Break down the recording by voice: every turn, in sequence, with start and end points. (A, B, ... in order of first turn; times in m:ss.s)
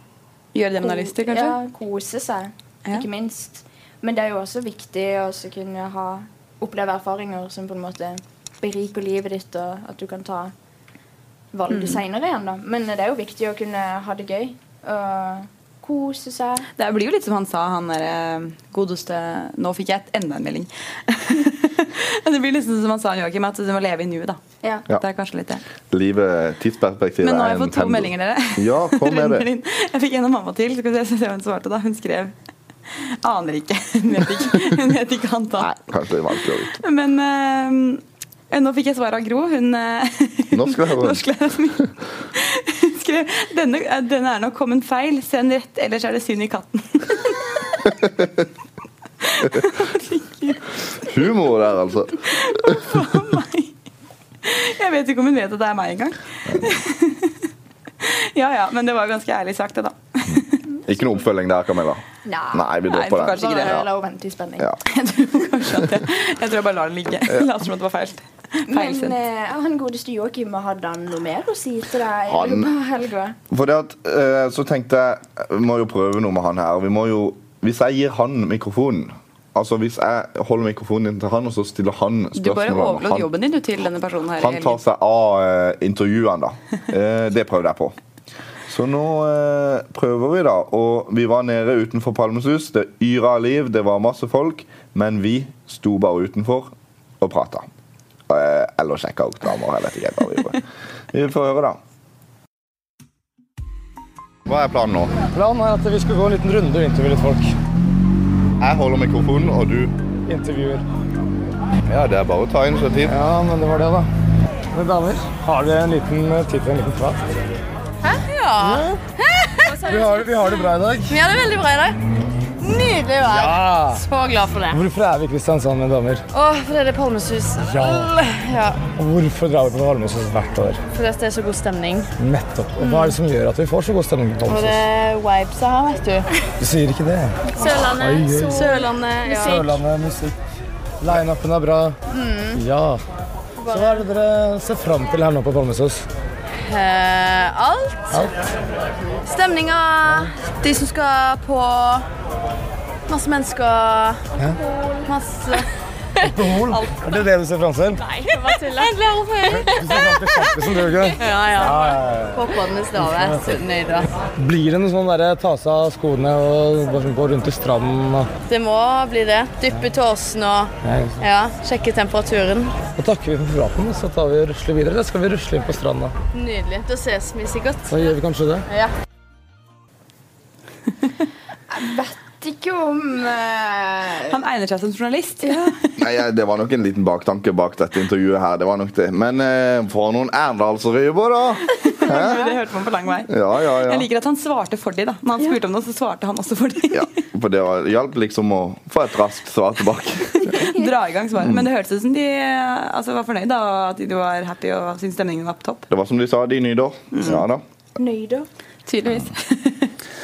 0:00.5-0:01.6 A
0:00.8-0:10.5 B
0:11.5-0:16.7 B
0:11.7-0:12.0 A
0:16.8-0:25.6 A
0:25.9-0:29.5 C
0:27.2-0:32.3 A
0:33.0-0:35.7 A
0:35.6-0:36.8 C
0:36.7-0:47.9 A
0:40.5-0:41.2 C
0:49.4-0:50.6 A
0:51.0-0:52.8 C
0:52.3-0:53.7 A
0:54.4-0:57.4 A
0:56.5-0:56.8 C
0:58.0-1:00.6 A
1:00.9-1:03.9 C
1:02.2-1:04.8 B
1:02.9-1:03.8 A
1:04.9-1:09.2 A
1:08.7-1:13.4 B
1:12.3-1:12.7 C
1:13.5-1:23.3 C
1:22.4-1:24.8 A
1:24.4-1:28.0 C
1:28.7-1:37.7 C
1:38.3-1:40.6 C
1:41.1-1:41.8 C
1:44.5-1:45.1 C
1:45.3-1:47.5 D
1:48.6-1:50.0 C
1:50.3-1:50.8 D
1:51.9-1:53.2 C
1:53.0-1:54.1 D
1:54.7-1:57.2 D
1:58.0-2:02.0 E
1:59.8-2:01.2 D
2:02.6-2:04.8 E
2:03.3-2:04.0 D
2:04.7-2:06.2 D
2:06.3-2:08.8 E
2:07.7-2:08.1 D
2:09.0-2:10.8 D
2:10.9-2:12.1 E
2:12.2-2:14.8 D
2:12.8-2:13.2 E
2:14.5-2:16.3 E
2:16.6-2:20.3 D
2:17.5-2:19.8 E
2:21.0-2:22.0 D
2:22.1-2:22.6 E
2:22.6-2:23.0 D
2:23.6-2:24.1 E
2:23.7-2:26.0 D
2:26.6-2:28.3 E
2:28.1-2:28.4 D
2:29.3-2:32.0 E
2:33.1-2:34.3 E
2:35.0-2:35.7 E
2:36.2-2:36.9 E
2:36.2-2:38.0 D
2:38.0-2:40.6 E
2:39.5-2:42.4 D
2:41.1-2:44.1 E
2:43.0-2:43.5 D
2:44.4-2:48.3 D
2:48.5-2:52.7 E
2:50.8-2:51.2 D
2:53.0-2:56.1 D
2:56.3-2:58.2 E
2:57.9-2:58.6 D
3:01.7-3:04.4 B
3:04.3-3:05.9 A
3:05.4-3:05.7 B
3:06.0-3:12.4 C
3:11.8-3:13.3 A
3:12.1-3:12.5 B
3:13.3-3:14.1 C
3:13.8-3:17.1 A
3:16.9-3:20.6 C
3:20.5-3:20.9 B
3:20.5-3:25.9 A
3:25.9-3:27.6 C
3:27.1-3:27.4 A
3:28.0-3:28.5 B
3:28.9-3:29.9 A